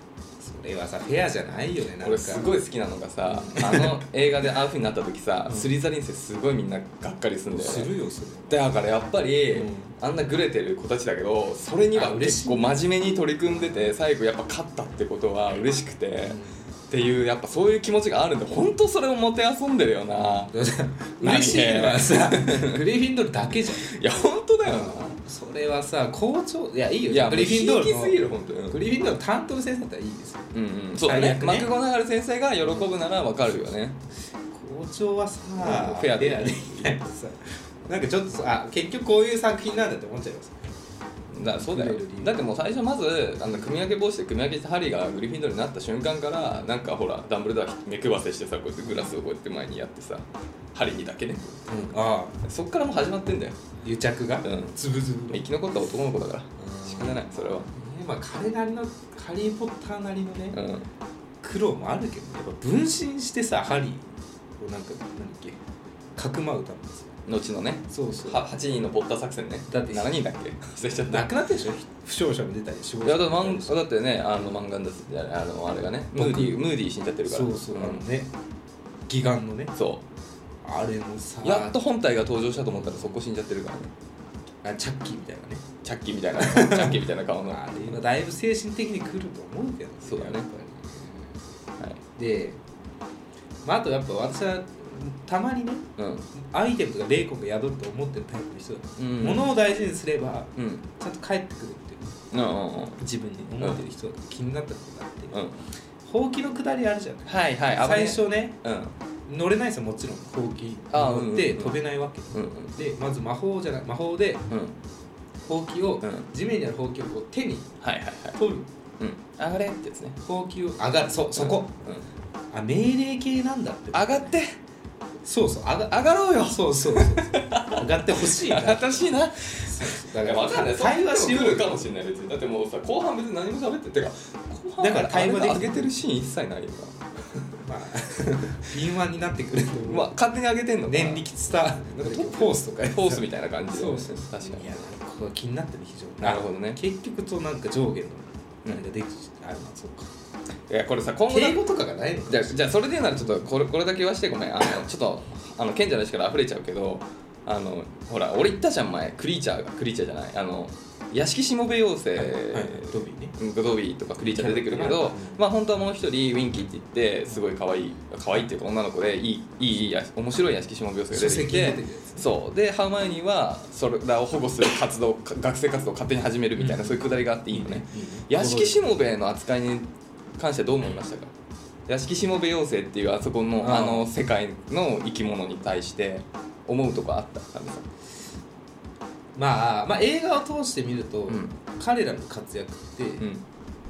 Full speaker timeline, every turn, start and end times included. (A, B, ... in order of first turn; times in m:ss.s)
0:00.4-0:02.5 A
0:02.0-0:07.9 B
0:03.2-0:04.0 A
0:05.5-0:05.7 A
0:07.5-0:08.5 A
0:08.5-0:16.4 B
0:09.5-0:09.9 A
0:11.9-0:12.8 A
0:13.5-0:13.9 A
0:16.2-0:16.7 A
0:16.9-0:20.5 B
0:20.2-0:24.0 A
0:21.2-0:22.8 B
0:23.6-0:25.2 B
0:24.6-0:31.7 A
0:27.1-0:28.8 B
0:30.5-0:34.0 B
0:32.6-0:32.9 A
0:34.5-0:40.6 A
0:35.6-0:37.1 B
0:41.3-0:51.6 B
0:41.4-0:42.3 A
0:43.4-0:43.7 A
0:51.7-0:52.4 A
0:52.4-0:53.6 B
0:53.8-0:55.4 A
0:54.4-0:54.8 B
0:55.3-0:57.7 B
0:56.6-1:00.6 A
1:00.5-1:00.9 B
1:01.4-1:04.0 A
1:04.6-1:05.6 A
1:06.2-1:07.2 A
1:07.2-1:11.3 B
1:07.9-1:08.4 A
1:09.7-1:10.1 A
1:11.0-1:13.8 A
1:13.0-1:18.0 B
1:16.1-1:16.7 A
1:17.3-1:18.3 A
1:19.1-1:19.7 A
1:19.7-1:20.0 B
1:20.6-1:21.8 A
1:21.4-1:23.9 B
1:22.6-1:23.2 A
1:24.6-1:25.7 A
1:25.8-1:28.0 B
1:26.3-1:31.3 A
1:30.0-1:30.4 B
1:32.2-1:32.6 A
1:33.6-1:42.1 A
1:36.0-1:36.3 B
1:39.0-1:39.5 B
1:40.6-1:40.8 B
1:42.3-1:43.0 B
1:43.0-1:45.4 A
1:45.3-1:45.6 B
1:46.0-1:48.6 A
1:47.2-1:48.9 B
1:49.3-1:54.5 A
1:50.9-1:51.8 B
1:52.3-1:52.8 B
1:54.5-1:54.8 B
1:55.4-1:57.8 A
1:57.8-1:58.4 B
1:58.3-1:58.7 A
1:59.0-2:00.2 B
2:00.2-2:01.7 A
2:01.3-2:02.0 B
2:02.5-2:04.3 A
2:03.9-2:04.6 B
2:05.2-2:11.8 A
2:05.9-2:17.6 B
2:14.8-2:15.9 A
2:17.6-2:20.2 A
2:19.8-2:21.2 B
2:20.8-2:30.1 A
2:21.8-2:24.8 B
2:26.2-2:26.8 B
2:30.7-2:31.6 B
2:31.3-2:33.5 A
2:32.3-3:01.3 B
2:42.1-2:43.4 A
2:44.2-2:45.4 A
2:51.1-2:52.3 A
2:56.6-2:58.9 A
3:01.9-3:07.8 B
3:03.6-3:04.1 A
3:09.4-3:13.3 A
3:11.3-3:11.5 B
3:13.2-3:13.4 B